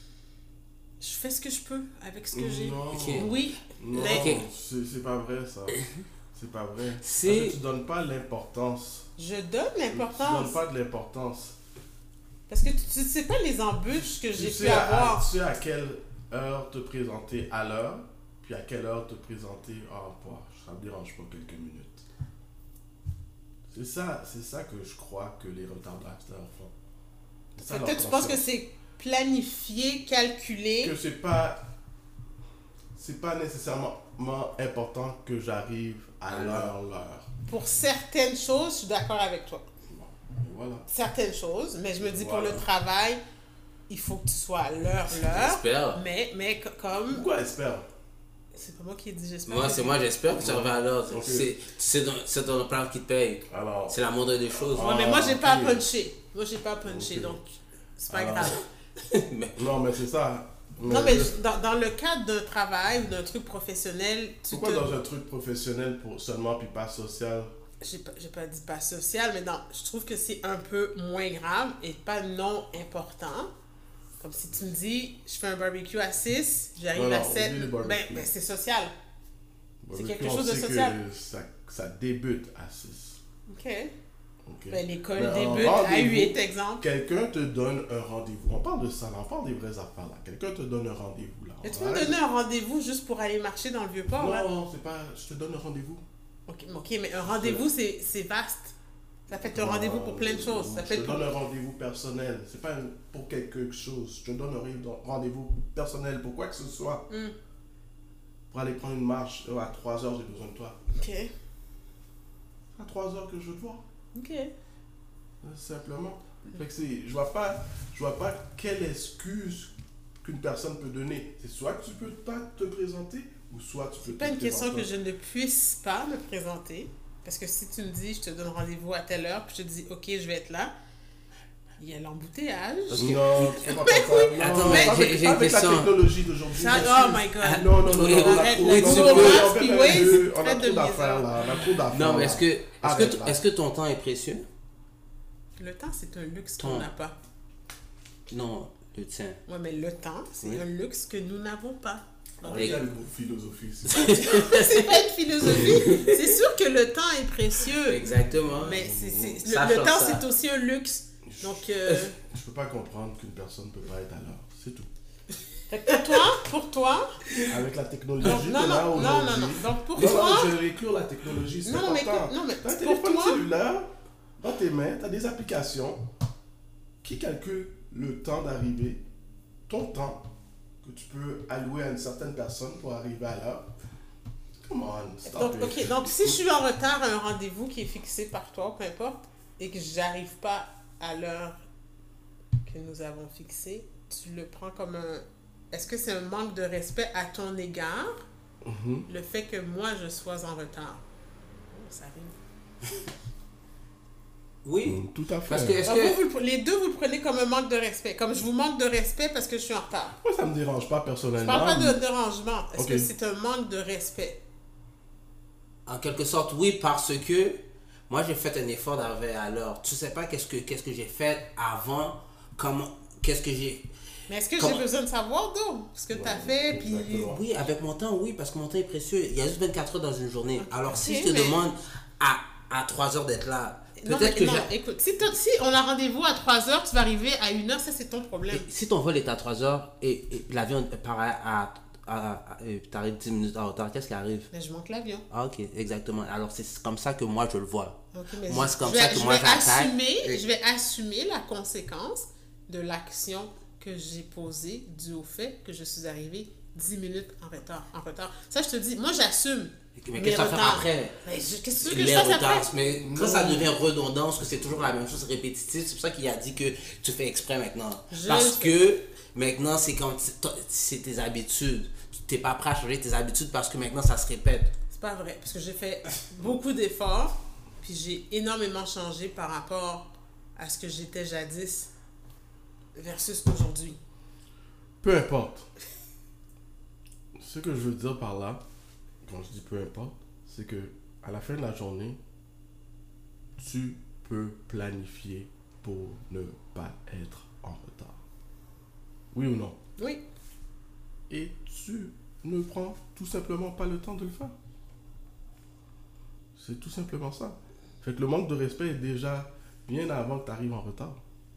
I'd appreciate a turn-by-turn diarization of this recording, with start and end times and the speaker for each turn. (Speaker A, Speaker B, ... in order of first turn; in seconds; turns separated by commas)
Speaker A: 1.0-4.3, Speaker B: 2.3-5.8, Speaker C: 2.9-3.4, Speaker C: 3.9-4.5, Speaker B: 6.3-9.1, Speaker C: 7.0-7.6, Speaker A: 9.2-10.6, Speaker B: 9.9-11.6, Speaker A: 12.5-15.3, Speaker B: 14.3-22.1, Speaker B: 23.7-26.7, Speaker B: 27.6-28.5, Speaker A: 27.6-30.9, Speaker B: 30.8-31.6, Speaker B: 33.0-37.3, Speaker C: 36.3-36.7, Speaker A: 37.5-39.6, Speaker B: 39.9-40.9, Speaker A: 40.9-43.2, Speaker B: 42.0-42.7, Speaker A: 43.9-47.3, Speaker C: 45.1-46.0, Speaker B: 47.1-47.9, Speaker A: 48.5-50.0, Speaker C: 49.5-54.9, Speaker B: 50.3-51.5, Speaker B: 53.5-55.9, Speaker A: 54.8-58.6, Speaker B: 56.8-57.4, Speaker B: 58.1-58.6, Speaker C: 59.1-59.6, Speaker B: 59.6-61.4, Speaker A: 60.9-65.0, Speaker B: 64.5-67.5, Speaker A: 67.8-73.5, Speaker A: 74.2-78.9, Speaker B: 76.9-78.3, Speaker B: 79.8-83.2, Speaker A: 79.9-81.0, Speaker A: 83.5-83.9, Speaker B: 84.5-92.2, Speaker A: 84.7-86.8, Speaker A: 91.6-94.5, Speaker B: 94.1-96.0, Speaker A: 96.5-98.8, Speaker B: 97.2-97.7, Speaker A: 99.3-101.3, Speaker B: 99.3-107.1, Speaker A: 107.1-107.3, Speaker B: 108.5-110.8, Speaker A: 110.9-111.3, Speaker B: 112.8-113.8, Speaker A: 114.2-114.5, Speaker B: 115.4-124.9, Speaker A: 124.0-130.7, Speaker A: 131.8-135.0, Speaker C: 132.9-136.0, Speaker B: 132.9-143.4, Speaker A: 136.5-141.3, Speaker C: 137.4-140.2, Speaker C: 141.9-144.4, Speaker A: 145.6-147.2, Speaker C: 146.6-146.9, Speaker C: 148.3-149.4, Speaker A: 149.5-152.8, Speaker B: 152.4-154.2, Speaker C: 152.5-152.8, Speaker C: 153.9-156.2, Speaker A: 154.2-162.2, Speaker C: 157.7-160.3, Speaker B: 158.3-159.4, Speaker B: 161.2-164.9, Speaker A: 165.7-167.2, Speaker B: 167.5-176.1, Speaker A: 168.2-170.6, Speaker C: 170.0-170.4, Speaker A: 171.7-173.4, Speaker B: 177.0-179.0, Speaker B: 179.7-180.3, Speaker B: 180.8-183.7, Speaker B: 184.6-186.4, Speaker A: 185.2-191.6, Speaker A: 192.6-198.2, Speaker B: 198.6-199.1, Speaker A: 199.1-201.0, Speaker A: 201.7-202.3, Speaker C: 204.7-206.2, Speaker B: 204.8-205.8, Speaker A: 205.8-210.2, Speaker B: 210.2-212.0, Speaker A: 211.4-214.4, Speaker B: 212.8-213.1, Speaker C: 215.9-223.9, Speaker A: 224.3-227.3, Speaker C: 224.6-224.8, Speaker B: 226.1-227.4, Speaker C: 227.2-234.7, Speaker A: 230.6-231.6, Speaker A: 234.0-238.7, Speaker C: 238.5-244.5, Speaker A: 244.5-245.2, Speaker C: 245.3-250.4, Speaker A: 248.1-262.8, Speaker C: 260.0-261.2, Speaker C: 261.8-274.7, Speaker B: 263.0-263.7, Speaker A: 268.1-268.8, Speaker A: 274.9-281.9, Speaker A: 282.9-284.0, Speaker B: 285.0-285.7, Speaker B: 287.4-288.6, Speaker B: 289.2-292.2, Speaker B: 293.6-298.2, Speaker B: 299.3-299.8, Speaker A: 300.0-300.2, Speaker B: 301.3-304.6, Speaker B: 306.6-311.2